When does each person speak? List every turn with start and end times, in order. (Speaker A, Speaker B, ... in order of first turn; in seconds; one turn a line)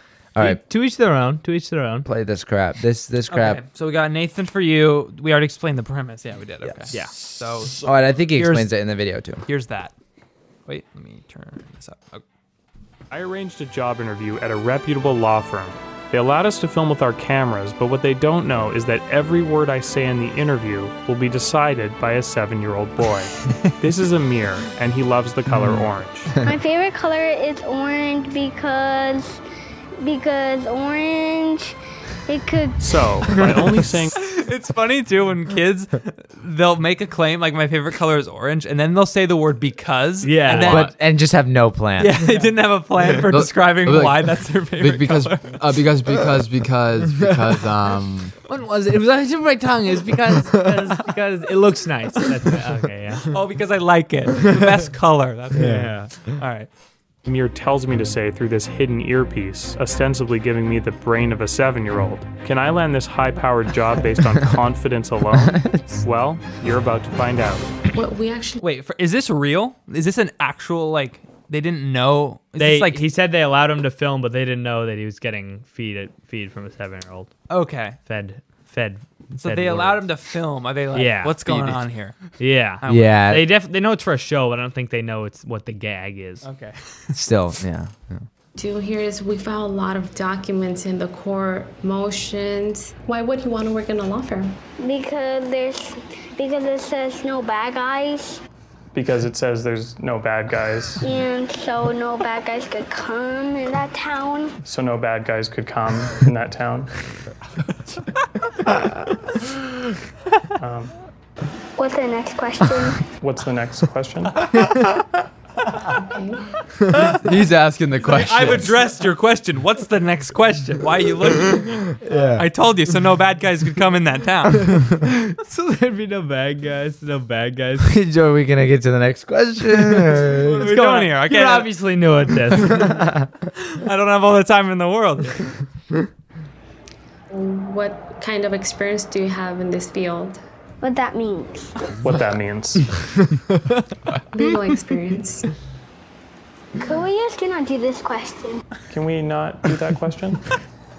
Speaker A: 0.3-0.6
Speaker B: 0.4-2.1
Speaker A: 2.0-3.6
Speaker C: 3.3-8.7
Speaker A: 6.6-7.0
Speaker A: 7.7-9.4
Speaker C: 9.4-9.9
Speaker C: 10.7-12.2
Speaker D: 13.1-26.3
Speaker E: 26.4-29.4
Speaker E: 30.0-31.8
Speaker E: 32.3-33.3
Speaker D: 32.8-34.1
Speaker C: 34.1-40.9
Speaker B: 40.2-40.8
Speaker A: 40.5-42.2
Speaker C: 42.0-45.6
Speaker F: 43.3-48.3
Speaker B: 48.5-53.3
Speaker C: 53.2-56.7
Speaker A: 55.5-55.9
Speaker B: 55.5-56.1
Speaker D: 57.2-67.7
Speaker A: 65.3-66.0
Speaker G: 67.9-68.6
Speaker C: 68.6-73.0
Speaker B: 72.6-77.3
Speaker C: 77.5-78.0
Speaker B: 78.0-80.1
Speaker C: 79.3-82.2
Speaker B: 80.9-81.7
Speaker B: 82.4-86.4
Speaker C: 82.8-83.2
Speaker A: 82.8-83.5
Speaker C: 86.4-87.1
Speaker A: 87.1-88.2
Speaker G: 88.5-94.6
Speaker E: 94.8-98.4
Speaker D: 98.9-101.0
Speaker E: 101.0-104.6
Speaker D: 104.6-106.9
Speaker D: 110.6-110.9
Speaker E: 111.8-113.0
Speaker D: 113.2-114.5
Speaker G: 116.0-116.4
Speaker F: 117.1-118.7
Speaker C: 118.0-124.7
Speaker A: 122.0-122.5
Speaker B: 124.7-127.9
Speaker A: 127.8-130.7
Speaker B: 129.9-133.0
Speaker C: 130.4-131.7
Speaker A: 132.6-133.2
Speaker C: 133.6-135.4
Speaker G: 137.3-140.4
Speaker E: 140.8-141.8
Speaker D: 142.0-142.9
Speaker G: 144.3-145.5
Speaker E: 146.8-148.6
Speaker D: 148.9-150.4